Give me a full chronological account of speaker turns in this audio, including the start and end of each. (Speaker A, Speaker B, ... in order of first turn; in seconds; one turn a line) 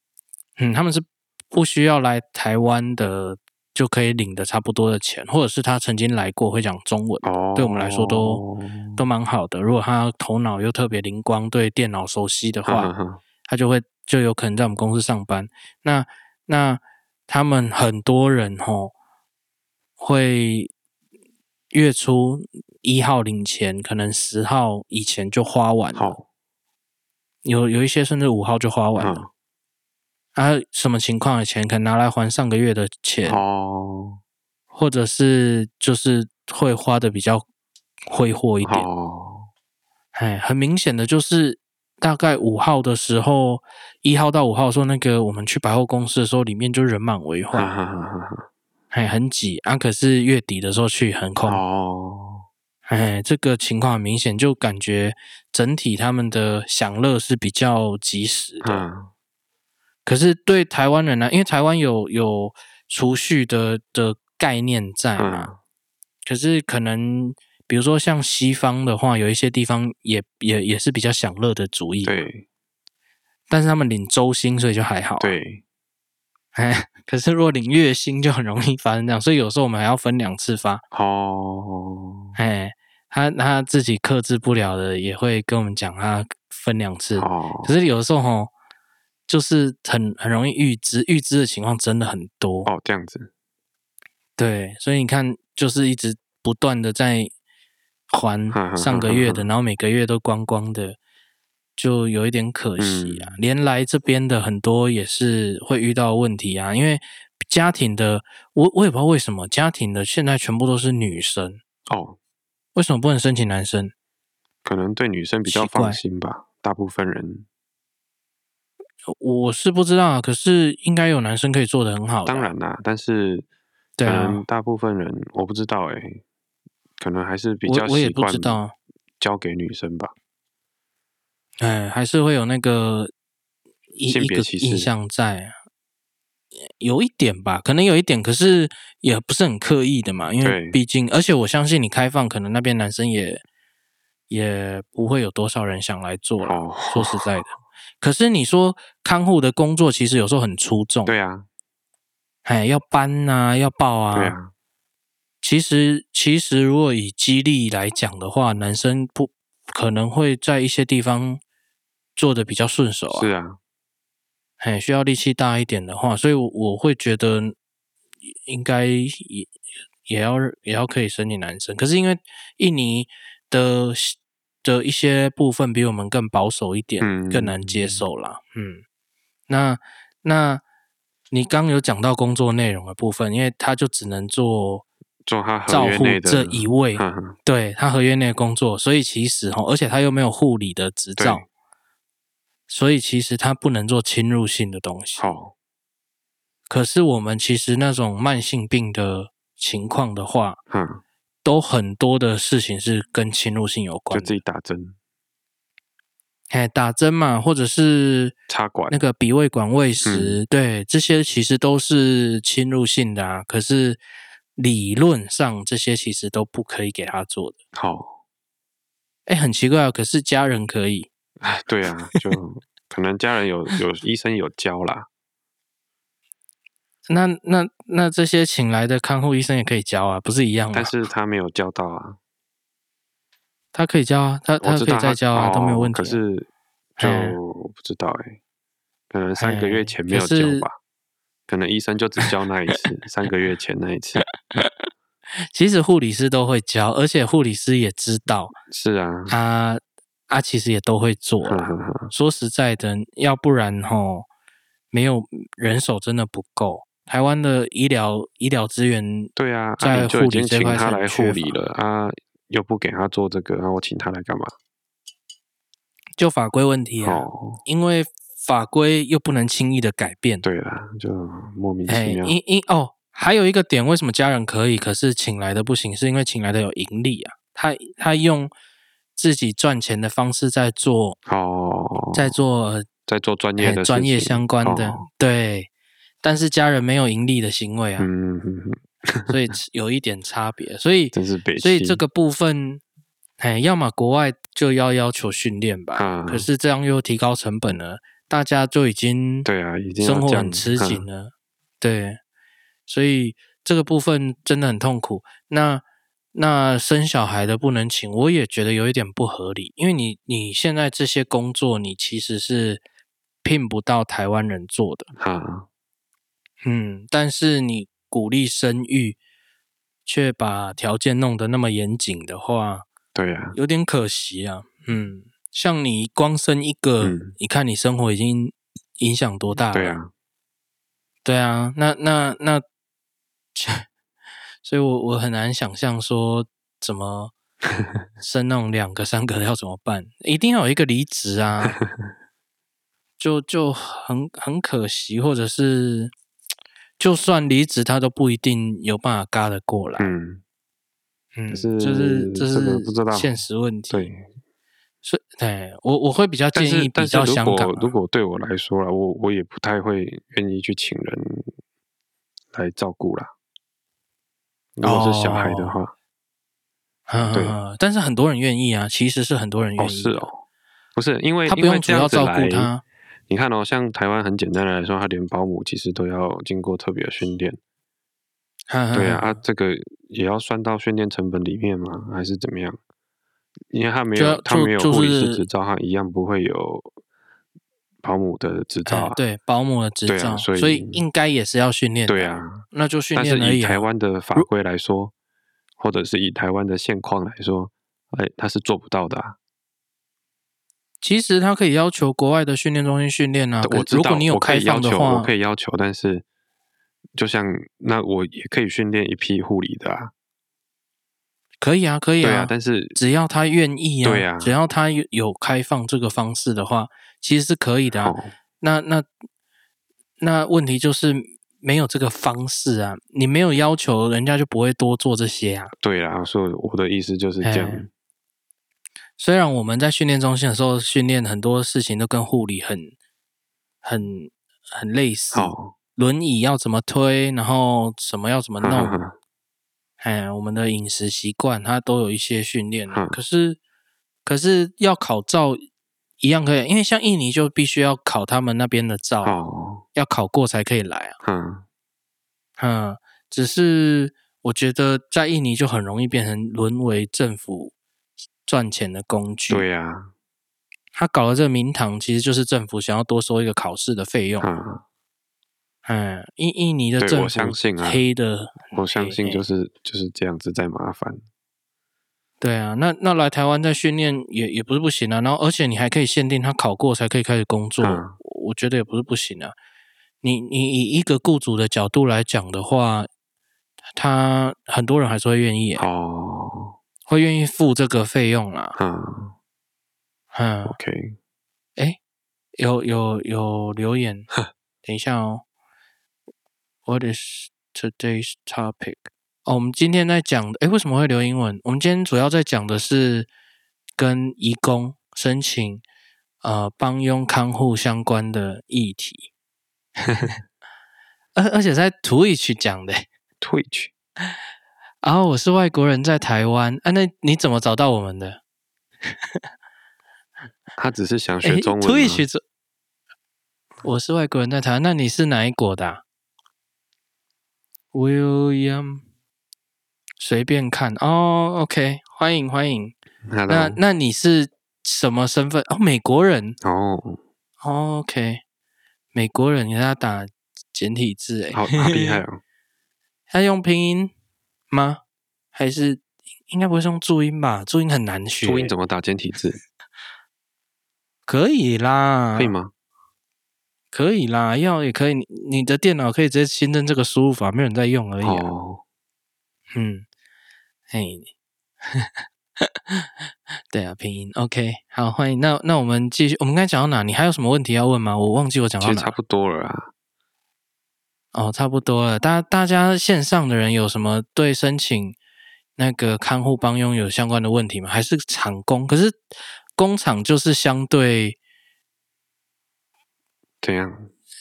Speaker A: 0.6-8.4
Speaker B: 7.2-9.0
Speaker A: 9.0-12.9
Speaker B: 12.7-13.2
Speaker A: 13.5-18.9
Speaker A: 20.0-20.7
Speaker A: 21.7-26.2
Speaker B: 25.9-26.2
Speaker A: 27.4-29.3
Speaker B: 29.0-29.3
Speaker A: 30.4-33.4
Speaker B: 33.3-34.2
Speaker A: 34.7-37.4
Speaker A: 38.1-38.9
Speaker B: 38.6-39.5
Speaker A: 40.1-47.7
Speaker B: 47.5-48.5
Speaker A: 48.9-51.6
Speaker B: 51.5-52.5
Speaker A: 52.9-58.9
Speaker B: 58.6-59.1
Speaker A: 60.0-65.5
Speaker B: 65.2-65.6
Speaker A: 66.3-72.3
Speaker B: 72.0-72.5
Speaker A: 73.5-75.4
Speaker B: 75.2-75.6
Speaker A: 76.5-80.8
Speaker B: 80.9-82.3
Speaker A: 82.4-88.5
Speaker B: 87.2-87.7
Speaker A: 89.3-92.7
Speaker B: 92.7-93.3
Speaker A: 94.4-97.3
Speaker A: 98.1-101.0
Speaker B: 98.5-99.5
Speaker A: 101.8-111.6
Speaker B: 102.8-103.4
Speaker B: 111.9-112.2
Speaker A: 112.8-113.9
Speaker B: 114.7-117.5
Speaker A: 115.5-116.0
Speaker A: 119.1-122.5
Speaker B: 122.3-123.5
Speaker A: 124.0-124.4
Speaker B: 124.0-126.2
Speaker B: 127.0-128.6
Speaker A: 127.7-128.7
Speaker B: 129.2-130.1
Speaker A: 131.6-133.1
Speaker A: 133.9-135.5
Speaker B: 134.1-134.9
Speaker A: 136.7-143.4
Speaker B: 140.4-140.8
Speaker A: 144.3-151.1
Speaker B: 146.4-147.4
Speaker B: 151.1-151.5
Speaker A: 152.4-154.4
Speaker B: 154.1-154.5
Speaker A: 155.4-161.4
Speaker A: 162.2-163.3
Speaker B: 163.1-163.6
Speaker A: 164.6-167.6
Speaker A: 168.5-169.5
Speaker A: 170.1-178.8
Speaker B: 177.0-178.0
Speaker A: 179.5-180.6
Speaker A: 181.3-184.9
Speaker B: 185.3-187.4
Speaker A: 185.7-191.4
Speaker B: 191.2-191.4
Speaker A: 192.7-195.3
Speaker B: 195.2-195.5
Speaker A: 196.7-200.6
Speaker B: 200.7-201.0
Speaker A: 201.4-204.3
Speaker B: 204.1-205.0
Speaker A: 206.5-208.4
Speaker B: 208.5-209.0
Speaker A: 208.9-214.0
Speaker B: 210.1-210.4
Speaker A: 214.6-217.6
Speaker B: 217.7-218.2
Speaker A: 219.3-221.1
Speaker B: 221.4-225.1
Speaker A: 227.1-230.9
Speaker B: 230.7-232.2
Speaker A: 233.7-236.2
Speaker B: 234.6-238.4
Speaker A: 237.0-237.4
Speaker B: 239.1-240.8
Speaker A: 239.4-240.7
Speaker B: 241.5-244.2
Speaker A: 244.5-244.9
Speaker A: 245.5-248.6
Speaker B: 248.7-249.3
Speaker A: 249.3-254.3
Speaker B: 251.4-252.1
Speaker A: 254.9-261.6
Speaker B: 259.4-264.5
Speaker A: 266.2-270.4
Speaker B: 267.0-267.6
Speaker B: 270.4-272.4
Speaker A: 271.9-278.5
Speaker A: 279.2-281.2
Speaker B: 281.3-282.4
Speaker A: 282.1-282.9
Speaker B: 283.1-285.1
Speaker A: 283.6-285.7
Speaker A: 286.2-288.1
Speaker B: 288.0-289.4
Speaker A: 289.3-292.8
Speaker B: 291.1-292.0
Speaker A: 293.4-299.5
Speaker B: 296.0-296.5
Speaker B: 299.5-301.1
Speaker A: 300.0-302.2
Speaker A: 302.9-305.8
Speaker A: 306.3-312.8
Speaker A: 313.4-315.1
Speaker B: 315.2-315.7
Speaker A: 316.6-319.2
Speaker A: 320.1-322.9
Speaker B: 323.1-323.6
Speaker A: 323.5-330.0
Speaker B: 327.0-327.4
Speaker B: 329.7-330.1
Speaker A: 331.2-332.6
Speaker A: 333.6-333.9
Speaker A: 334.6-337.3
Speaker A: 338.2-341.8
Speaker B: 341.7-342.1
Speaker A: 343.2-346.1
Speaker A: 347.0-350.1
Speaker B: 350.0-350.4
Speaker A: 351.4-354.1
Speaker B: 351.5-353.3
Speaker B: 353.9-354.2
Speaker A: 355.0-357.9
Speaker B: 356.5-361.5
Speaker B: 362.5-363.3
Speaker B: 364.8-365.9
Speaker A: 364.8-365.8
Speaker A: 367.1-370.3
Speaker B: 367.3-367.6
Speaker B: 369.8-370.4
Speaker B: 371.0-372.7
Speaker A: 371.5-372.8
Speaker B: 373.3-377.6
Speaker A: 378.7-379.4
Speaker B: 378.9-382.8
Speaker B: 383.7-386.9
Speaker A: 384.1-385.5
Speaker B: 388.0-389.2
Speaker A: 388.9-393.8
Speaker B: 390.1-391.0
Speaker B: 392.1-395.1
Speaker B: 395.8-399.4
Speaker A: 401.0-405.3
Speaker B: 403.6-406.2
Speaker B: 407.2-410.1
Speaker A: 411.6-419.1
Speaker B: 412.2-413.0
Speaker B: 414.0-414.6
Speaker B: 418.0-418.3
Speaker A: 420.2-425.7
Speaker B: 425.8-427.9
Speaker A: 427.4-427.8
Speaker A: 429.2-432.9
Speaker A: 433.8-439.0
Speaker B: 435.3-435.8
Speaker B: 438.6-439.2
Speaker A: 440.0-443.6
Speaker B: 442.9-443.2
Speaker A: 444.2-445.6
Speaker A: 446.2-449.4
Speaker B: 449.2-449.8
Speaker A: 449.9-451.1
Speaker B: 451.2-451.6
Speaker A: 452.6-457.7
Speaker A: 458.5-459.7
Speaker B: 459.5-460.1
Speaker A: 460.9-464.5
Speaker B: 464.4-464.8
Speaker A: 465.9-469.4
Speaker B: 467.0-468.0
Speaker B: 468.7-471.2
Speaker A: 472.4-479.5
Speaker B: 477.8-478.2
Speaker A: 480.2-483.1
Speaker A: 484.0-485.9
Speaker B: 485.8-486.8
Speaker A: 487.1-488.8
Speaker B: 488.8-489.4
Speaker A: 490.3-490.8
Speaker B: 490.6-491.2
Speaker A: 492.6-494.3
Speaker A: 494.8-495.4
Speaker A: 496.9-503.3
Speaker A: 504.0-505.8
Speaker A: 506.4-509.3
Speaker A: 511.4-513.1
Speaker B: 513.4-513.9
Speaker A: 515.0-518.4
Speaker A: 519.1-519.4
Speaker B: 520.8-522.2
Speaker A: 521.4-522.4
Speaker A: 523.8-526.0
Speaker A: 527.9-529.0
Speaker A: 530.2-533.0
Speaker B: 533.2-533.8
Speaker A: 533.5-536.6
Speaker B: 536.6-537.2
Speaker A: 537.6-538.4
Speaker A: 539.1-542.2
Speaker B: 541.5-542.4
Speaker A: 543.3-544.1
Speaker A: 544.7-545.0
Speaker A: 545.5-548.8
Speaker B: 548.4-549.6
Speaker A: 551.3-552.5
Speaker B: 552.4-552.7
Speaker A: 553.9-558.5
Speaker B: 558.2-558.8
Speaker A: 559.7-560.1
Speaker A: 560.9-561.3
Speaker A: 561.9-563.1
Speaker A: 563.7-569.1
Speaker B: 568.8-569.9
Speaker A: 571.3-575.2
Speaker A: 575.8-579.2
Speaker A: 579.8-581.4
Speaker B: 583.6-584.1